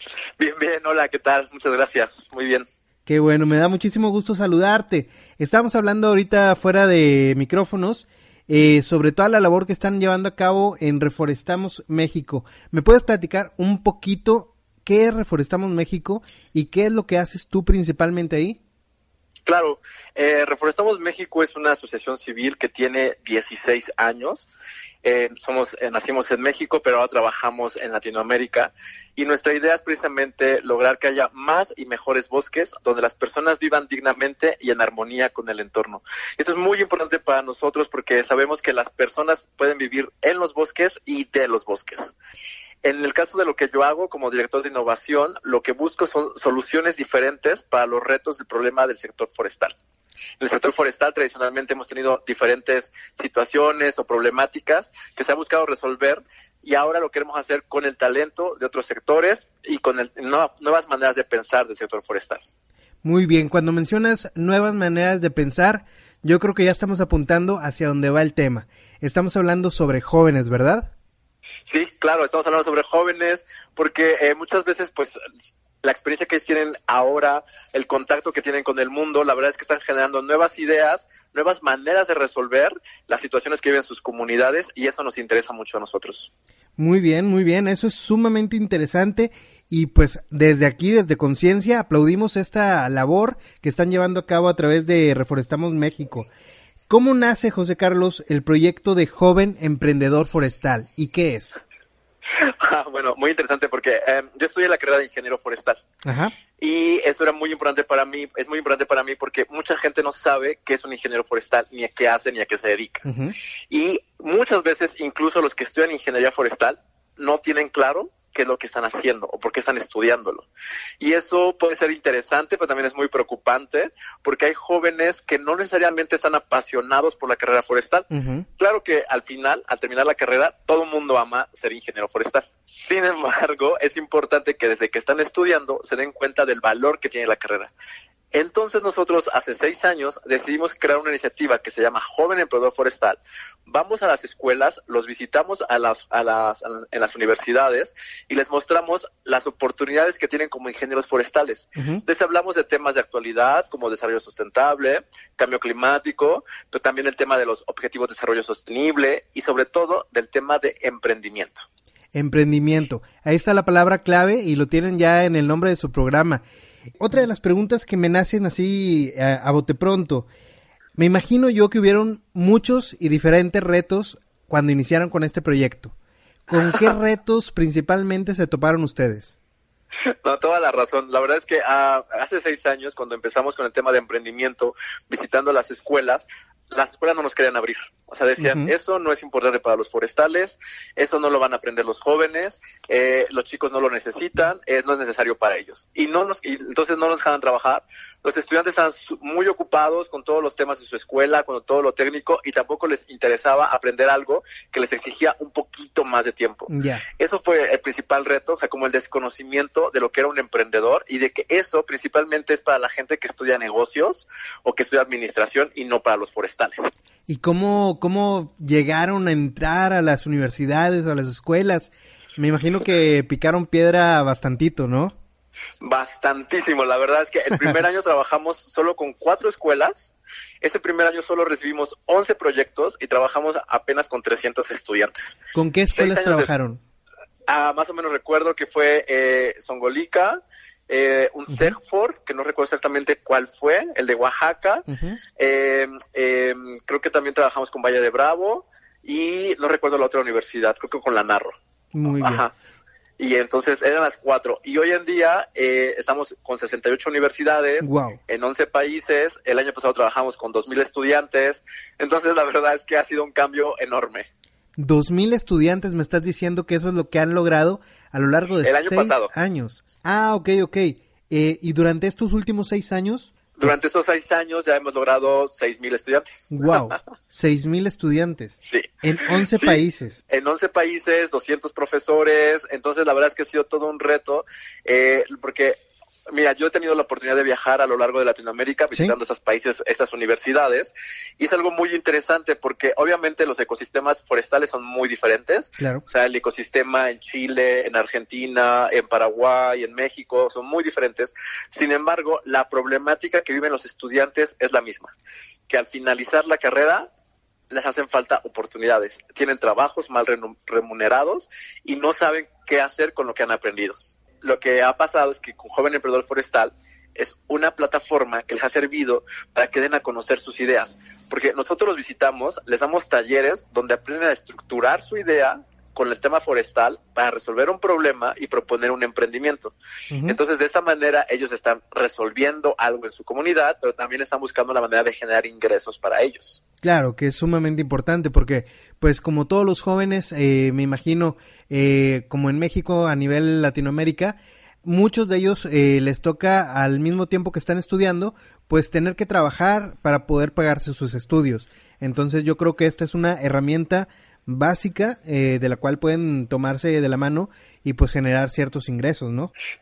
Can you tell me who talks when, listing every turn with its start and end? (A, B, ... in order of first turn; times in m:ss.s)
0:00.4-0:02.6 A
0:03.1-0:18.6 B
0:19.5-0:24.5 A
0:25.0-0:42.2 A
0:42.8-0:49.7 A
0:50.4-1:02.4 A
1:03.0-1:10.9 B
1:11.7-1:15.2 A
1:15.8-1:26.3 A
1:26.8-1:36.3 B
1:36.9-1:41.6 B
1:42.3-1:45.9 A
1:46.0-1:46.3 B
1:46.6-1:53.0 A
1:53.0-1:53.4 B
1:53.7-2:00.5 A
2:01.0-2:17.7 A
2:08.1-2:08.5 B
2:18.3-2:41.6 A
2:31.8-2:32.0 B
2:42.2-2:46.4 B
2:47.0-2:50.3 B
2:51.0-2:56.0 B
2:56.5-2:59.3 B
3:00.2-3:36.9 A
3:08.4-3:08.7 B
3:26.7-3:27.0 B
3:37.3-3:45.2 B
3:45.8-3:55.4 A
3:55.5-3:56.8 B
3:55.9-3:56.5 A
3:57.5-4:11.6 A
4:01.5-4:01.8 B
4:04.9-4:05.2 B
4:11.9-4:12.4 B
4:12.1-4:12.5 A
4:13.2-4:24.3 A
4:17.8-4:18.2 B
4:24.8-4:33.7 B
4:28.6-4:29.3 A
4:33.6-4:37.0 A
4:36.5-4:40.2 B
4:38.6-4:45.8 A
4:46.3-5:05.1 A
4:55.8-4:56.0 B
5:05.7-5:07.1 A
5:07.7-5:36.6 A
5:30.1-5:30.4 B
5:36.8-5:59.5 B